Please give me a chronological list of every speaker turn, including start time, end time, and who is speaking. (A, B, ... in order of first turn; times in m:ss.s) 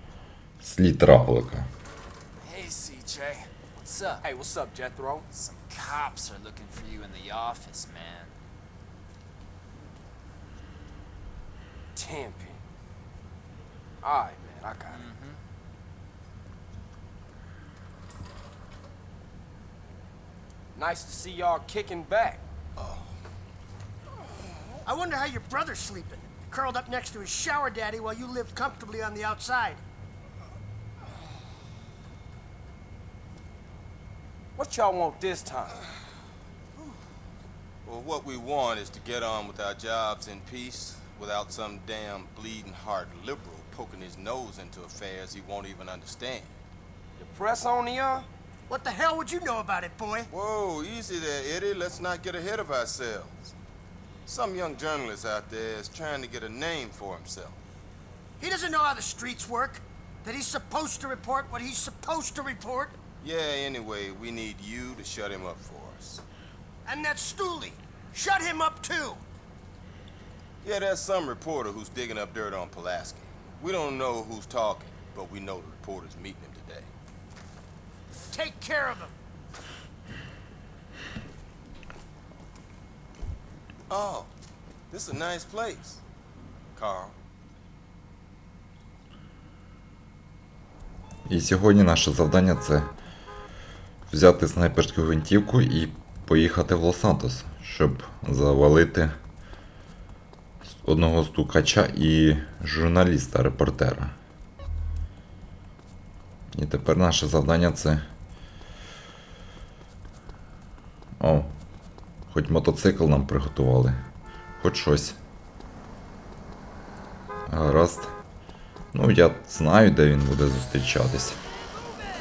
0:00.6-0:01.7 A
0:02.4-0:03.5 B
0:03.7-0:04.2 C
0:04.2-0:05.4 B
0:05.3-0:08.3 C
0:12.0-0:12.6 B
0:14.0-0:15.1 B
0:14.9-0:15.4 C
0:20.8-0:22.4 B
0:22.8-0:23.1 D
0:24.9-0:29.8 E
0:34.6-0:35.8 B
0:37.8-0:46.5 D
0:47.2-0:48.3 B
0:48.7-0:50.3 E
0:50.3-0:53.5 D
0:54.3-0:57.6 D
0:58.4-1:03.0 E
1:03.2-1:06.2 D
1:06.9-1:09.2 E
1:10.6-1:16.9 D
1:18.3-1:19.2 E
1:23.9-1:24.3 D
1:24.9-1:26.0 D
1:26.8-1:27.2 D
1:31.3-1:32.9 A
1:34.1-1:39.1 A
1:40.7-1:44.1 A
1:46.5-1:48.0 A
1:51.2-1:51.5 A
1:52.3-1:54.0 A
1:54.6-1:55.2 A
1:57.5-1:58.1 A
1:58.9-2:01.4 A